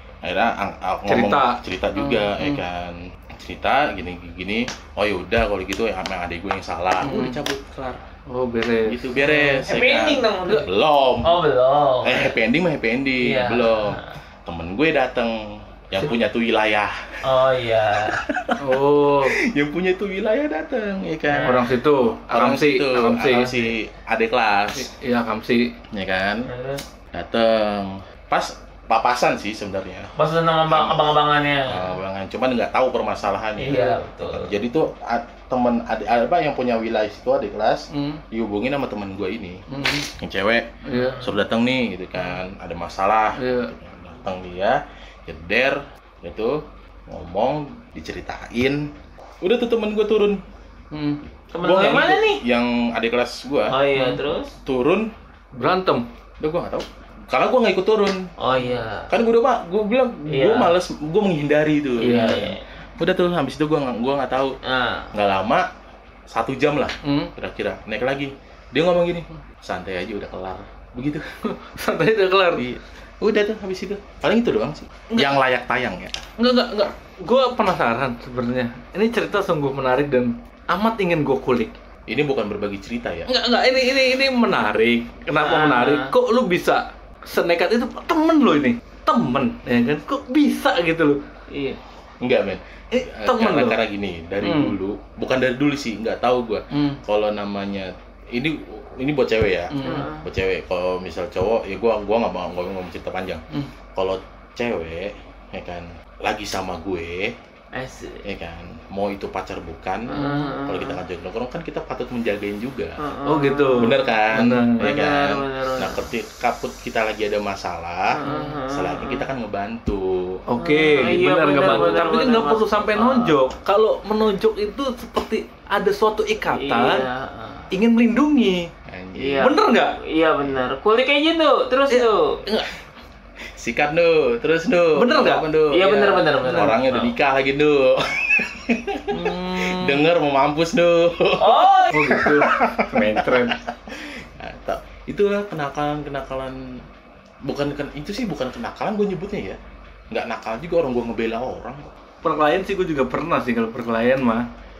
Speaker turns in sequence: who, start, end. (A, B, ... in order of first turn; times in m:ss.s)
0:00.2-0:08.0 A
0:01.1-0:02.6 B
0:07.0-0:07.4 B
0:08.3-0:09.6 B
0:08.9-0:11.4 A
0:09.2-0:10.7 C
0:11.2-0:12.4 C
0:12.0-0:17.4 A
0:13.2-0:14.1 C
0:17.2-0:18.2 C
0:18.1-0:21.7 A
0:18.6-0:19.4 B
0:21.3-0:21.6 C
0:21.4-0:23.7 B
0:22.3-0:24.9 A
0:24.7-0:25.7 B
0:25.9-0:26.5 A
0:26.4-0:26.8 C
0:27.1-0:30.1 A
0:30.2-0:31.9 C
0:30.7-0:31.1 A
0:31.7-0:48.9 A
0:33.6-0:34.6 C
0:37.9-0:38.2 B
0:39.7-0:40.1 B
0:40.8-0:41.3 B
0:43.4-0:43.7 B
0:49.4-0:50.4 A
0:50.9-0:51.2 B
0:51.5-0:52.4 C
0:51.6-0:53.8 A
0:53.7-0:54.5 C
0:53.9-0:54.2 B
0:54.6-0:55.1 A
0:55.6-0:56.1 B
0:56.4-0:58.2 A
0:58.4-0:59.1 C
0:59.1-1:04.6 A
1:00.3-1:00.7 C
1:02.0-1:02.6 C
1:02.0-1:02.6 B
1:04.6-1:05.1 C
1:05.1-1:05.7 A
1:06.3-1:11.3 A
1:07.0-1:07.3 B
1:11.6-1:12.7 B
1:12.6-1:16.2 A
1:16.4-1:21.7 B
1:22.1-1:23.3 A
1:23.3-1:31.2 B
1:25.3-1:26.1 C
1:31.5-1:31.8 C
1:32.2-1:43.4 A
1:32.9-1:33.8 B
1:34.4-1:34.8 B
1:36.7-1:37.0 B
1:39.7-1:40.1 B
1:39.8-1:40.3 C
1:44.0-1:47.3 A
1:47.7-1:48.2 C
1:48.2-1:53.0 A
1:50.1-1:51.0 C
1:50.2-1:50.5 B
1:53.0-1:54.0 C
1:53.2-1:54.9 B
1:53.8-2:00.4 A
1:54.8-1:56.0 C
1:58.1-1:59.3 C
1:58.2-1:58.6 B
2:00.5-2:07.0 B
2:00.6-2:03.4 C
2:01.6-2:02.1 A
2:06.5-2:07.7 C
2:07.7-2:08.7 B
2:08.9-2:09.6 A
2:09.2-2:12.4 C
2:09.4-2:10.0 B
2:11.9-2:12.7 B
2:13.6-2:26.6 A
2:15.0-2:15.5 B
2:15.7-2:17.1 C
2:19.1-2:20.1 B
2:21.4-2:22.3 C
2:21.9-2:23.6 B
2:27.4-2:29.6 A
2:30.1-2:31.9 A
2:32.2-2:34.5 B